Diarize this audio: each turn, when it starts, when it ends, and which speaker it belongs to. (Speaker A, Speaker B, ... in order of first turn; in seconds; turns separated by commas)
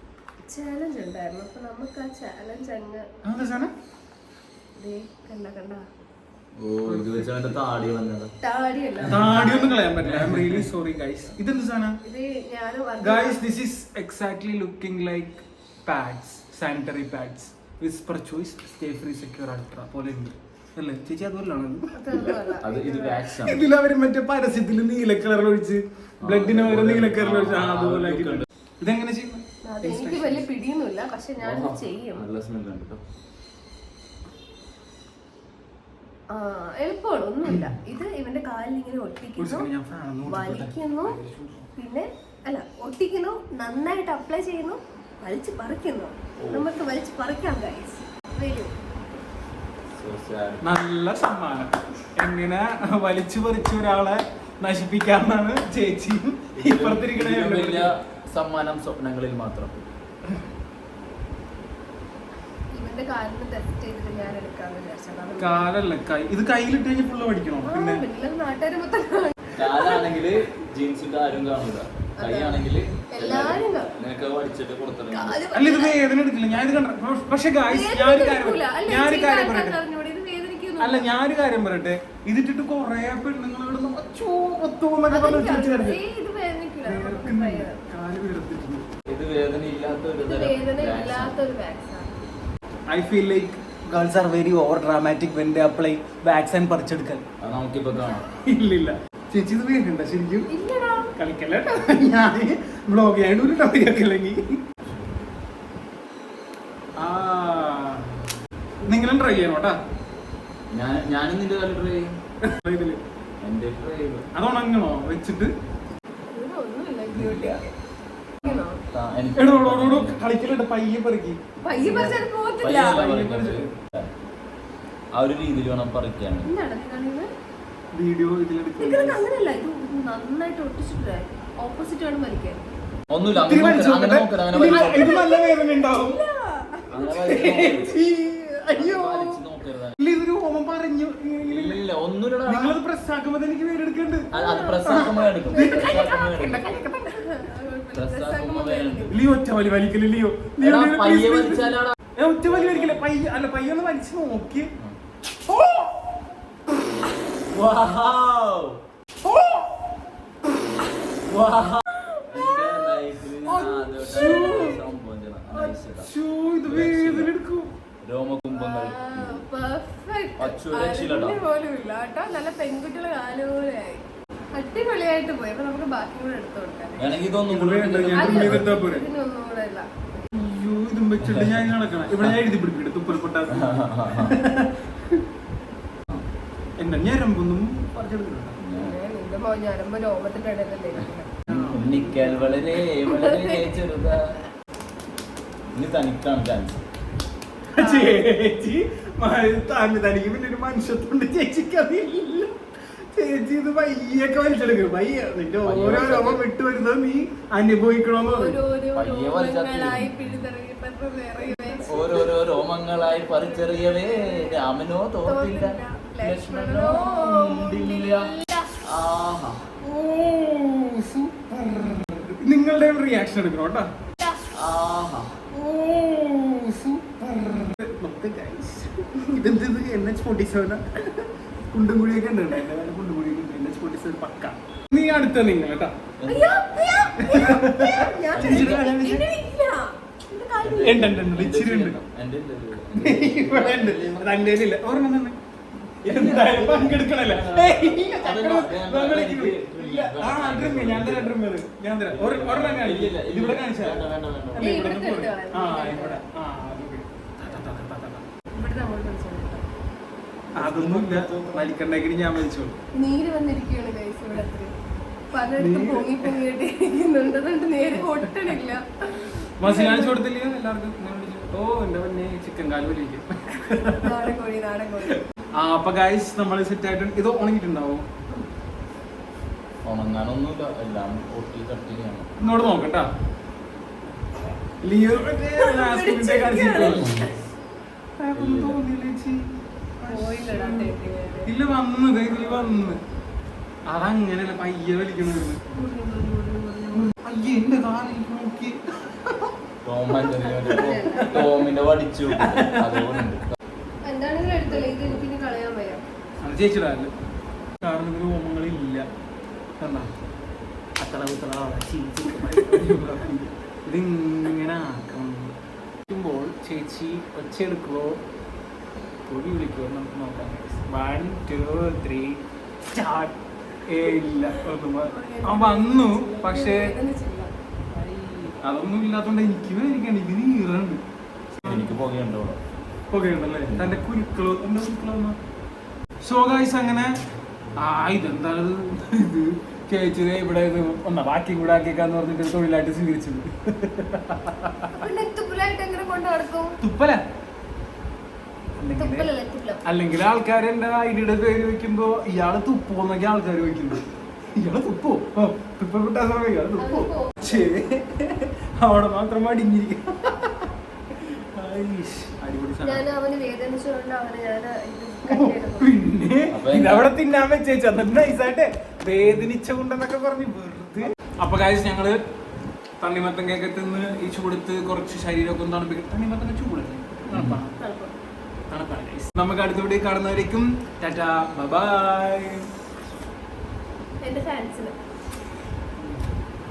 Speaker A: 0.5-3.0, Speaker B: 3.2-3.7, Speaker A: 4.8-5.8, Speaker C: 6.5-8.3, Speaker B: 6.8-7.5, Speaker A: 8.4-9.9, Speaker C: 9.0-9.5, Speaker B: 9.1-12.0, Speaker C: 10.0-10.7, Speaker A: 12.0-13.4, Speaker B: 13.0-22.4, Speaker A: 21.9-23.2, Speaker C: 22.1-23.6, Speaker B: 23.4-30.5, Speaker C: 26.2-28.5, Speaker A: 29.7-32.2, Speaker C: 31.4-33.0, Speaker A: 36.3-39.7, Speaker B: 39.4-41.7, Speaker A: 40.3-41.2, Speaker A: 41.8-48.7, Speaker C: 46.4-46.7, Speaker C: 49.9-50.6, Speaker B: 50.6-57.9, Speaker C: 56.6-59.8, Speaker A: 62.7-65.7, Speaker B: 65.4-68.0, Speaker A: 67.7-70.0, Speaker C: 69.5-75.4, Speaker A: 72.2-74.0, Speaker A: 75.1-76.0, Speaker B: 75.5-79.8, Speaker A: 77.7-81.2, Speaker B: 80.8-86.0, Speaker A: 85.1-87.8, Speaker B: 86.8-88.9, Speaker C: 89.1-91.4, Speaker A: 90.2-92.1, Speaker B: 92.9-97.2, Speaker C: 97.4-98.2, Speaker B: 98.3-100.5, Speaker A: 100.5-101.1, Speaker B: 101.2-104.6, Speaker B: 107.0-108.2, Speaker B: 108.8-109.8, Speaker C: 110.7-112.1, Speaker B: 112.4-113.0, Speaker C: 113.4-114.3, Speaker B: 114.3-115.5, Speaker A: 116.3-117.7, Speaker C: 117.1-117.6, Speaker A: 118.4-118.8, Speaker C: 118.5-120.2, Speaker B: 119.3-121.4, Speaker A: 121.6-123.1, Speaker C: 121.7-124.1, Speaker B: 122.8-123.6, Speaker C: 125.1-126.5, Speaker A: 126.4-127.3, Speaker B: 128.0-129.2, Speaker A: 128.8-132.6, Speaker C: 133.1-135.2, Speaker B: 133.3-136.2, Speaker A: 134.6-137.7, Speaker C: 136.9-137.9, Speaker B: 137.2-139.4, Speaker C: 138.7-140.0, Speaker B: 140.0-141.8, Speaker C: 141.5-142.8, Speaker B: 142.5-144.3, Speaker C: 144.3-146.7, Speaker A: 144.3-149.2, Speaker B: 144.9-145.1, Speaker C: 147.9-149.1, Speaker B: 149.1-154.7, Speaker C: 150.6-151.9, Speaker C: 152.5-153.0, Speaker B: 155.5-156.0, Speaker C: 157.5-158.8, Speaker C: 161.3-166.1, Speaker A: 162.0-164.8, Speaker B: 164.0-164.8, Speaker B: 165.5-167.7, Speaker C: 166.7-167.3, Speaker C: 168.0-169.5, Speaker A: 168.5-174.0, Speaker C: 170.4-171.4, Speaker A: 174.6-177.3, Speaker C: 177.0-178.7, Speaker B: 177.5-179.1, Speaker A: 178.1-179.9, Speaker B: 180.3-184.8, Speaker C: 181.2-181.7, Speaker C: 183.5-184.4, Speaker B: 186.8-188.6, Speaker C: 188.6-188.9, Speaker A: 188.8-193.8, Speaker B: 191.5-191.9, Speaker C: 191.5-194.4, Speaker C: 195.7-196.8, Speaker B: 197.8-202.6, Speaker B: 203.1-208.6, Speaker C: 205.6-206.5, Speaker A: 208.2-214.7, Speaker C: 208.9-210.5, Speaker C: 211.8-218.3, Speaker A: 215.2-218.8, Speaker C: 218.8-219.7, Speaker B: 219.8-223.9, Speaker C: 224.5-225.3, Speaker B: 225.5-235.9, Speaker C: 236.2-236.5, Speaker A: 236.3-241.2, Speaker B: 237.2-239.2, Speaker C: 238.3-238.8, Speaker C: 240.6-244.4, Speaker B: 240.8-242.0, Speaker B: 243.0-245.4, Speaker C: 246.0-251.4, Speaker B: 246.0-258.3, Speaker C: 252.1-254.8, Speaker A: 254.6-256.2, Speaker A: 258.6-259.6, Speaker C: 260.6-261.7, Speaker B: 260.6-262.8, Speaker A: 263.0-264.7, Speaker A: 265.3-270.2, Speaker B: 265.5-266.4, Speaker B: 269.6-274.3, Speaker A: 273.7-275.2, Speaker B: 275.6-278.1, Speaker C: 279.9-282.3, Speaker B: 282.4-283.1, Speaker B: 284.8-287.3, Speaker A: 285.6-287.3, Speaker C: 286.7-287.3, Speaker B: 288.2-290.9, Speaker C: 288.4-288.8, Speaker A: 290.1-291.6, Speaker B: 291.5-293.0, Speaker A: 292.4-293.0, Speaker B: 293.9-295.6, Speaker A: 295.6-297.1, Speaker B: 297.1-299.5, Speaker C: 299.8-303.5, Speaker A: 300.4-301.7, Speaker B: 302.3-303.3, Speaker A: 304.1-306.0, Speaker C: 304.5-305.3, Speaker B: 306.4-307.1, Speaker B: 307.8-309.1, Speaker B: 309.8-310.1, Speaker B: 311.0-315.6, Speaker A: 312.4-312.8, Speaker B: 316.1-318.2, Speaker B: 319.3-323.4, Speaker B: 323.9-326.9, Speaker A: 324.4-327.5, Speaker B: 328.1-331.0, Speaker C: 331.6-332.6, Speaker B: 333.1-335.4, Speaker C: 333.7-334.0, Speaker B: 336.2-337.1, Speaker B: 337.8-345.0, Speaker A: 344.9-346.8, Speaker B: 346.8-347.2, Speaker B: 348.8-349.3, Speaker A: 348.9-349.8, Speaker B: 349.8-354.0, Speaker B: 354.6-360.7, Speaker A: 356.8-357.6, Speaker B: 361.4-363.1, Speaker A: 362.8-366.0, Speaker B: 365.3-372.2, Speaker C: 366.5-367.1, Speaker B: 373.0-377.8, Speaker C: 377.3-377.6, Speaker A: 377.8-378.1, Speaker B: 378.7-382.7, Speaker A: 384.2-384.9, Speaker B: 386.0-386.2